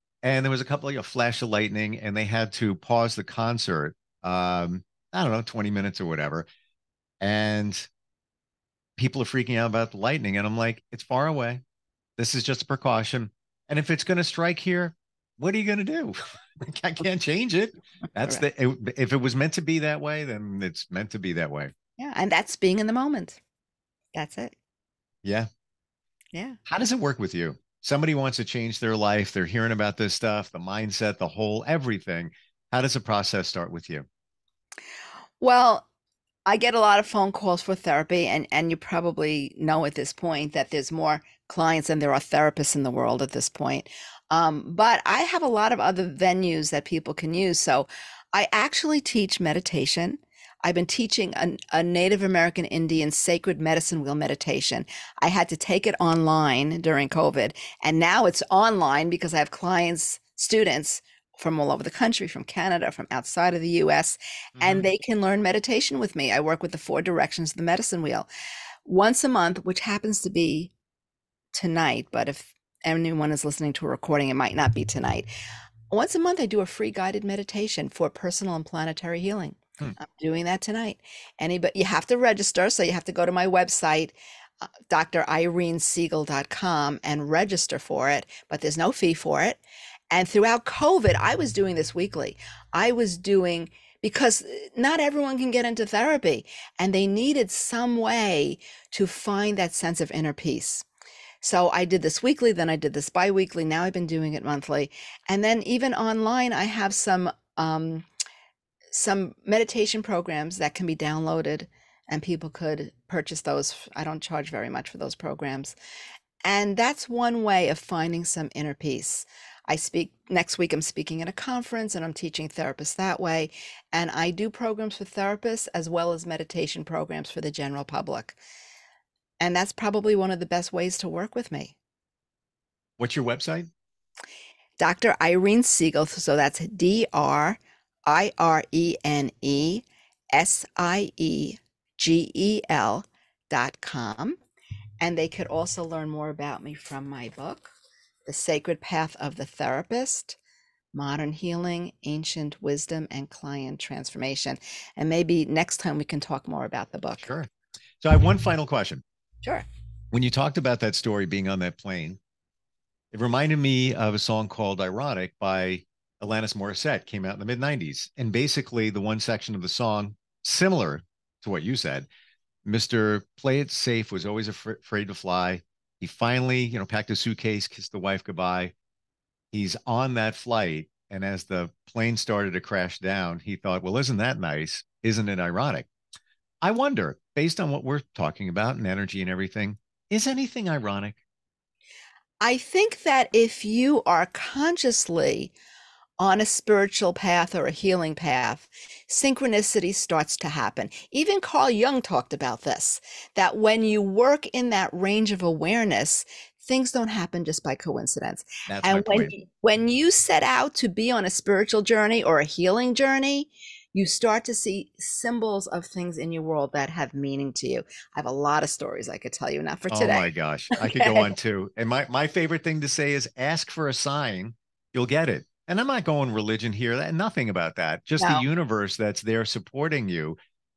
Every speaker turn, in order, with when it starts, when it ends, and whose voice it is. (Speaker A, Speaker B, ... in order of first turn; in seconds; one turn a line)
Speaker A: 0.2-6.5
Speaker A: 7.2-7.9
Speaker A: 9.0-11.6
Speaker A: 12.2-21.7
Speaker B: 22.0-23.4
Speaker B: 24.1-24.5
Speaker B: 26.3-26.6
Speaker A: 26.7-34.0
Speaker B: 35.4-35.9
Speaker B: 36.5-68.2
Speaker A: 64.6-64.8
Speaker B: 68.8-70.7
Speaker B: 71.5-75.3
Speaker B: 75.9-89.6
Speaker B: 90.1-100.8
Speaker B: 101.4-108.0
Speaker B: 108.9-115.7
Speaker B: 116.4-128.4
Speaker B: 129.4-131.7
Speaker A: 133.0-133.7
Speaker B: 134.8-144.4
Speaker B: 145.0-147.7
Speaker B: 148.3-150.4
Speaker B: 150.9-157.3
Speaker A: 157.2-157.5
Speaker A: 158.0-159.0
Speaker A: 160.1-162.2
Speaker A: 163.1-172.1
Speaker A: 172.6-178.7
Speaker A: 179.5-185.9
Speaker A: 186.6-191.2
Speaker B: 192.4-195.5
Speaker B: 196.2-221.3
Speaker A: 208.7-209.3
Speaker A: 219.9-230.3
Speaker B: 228.2-228.4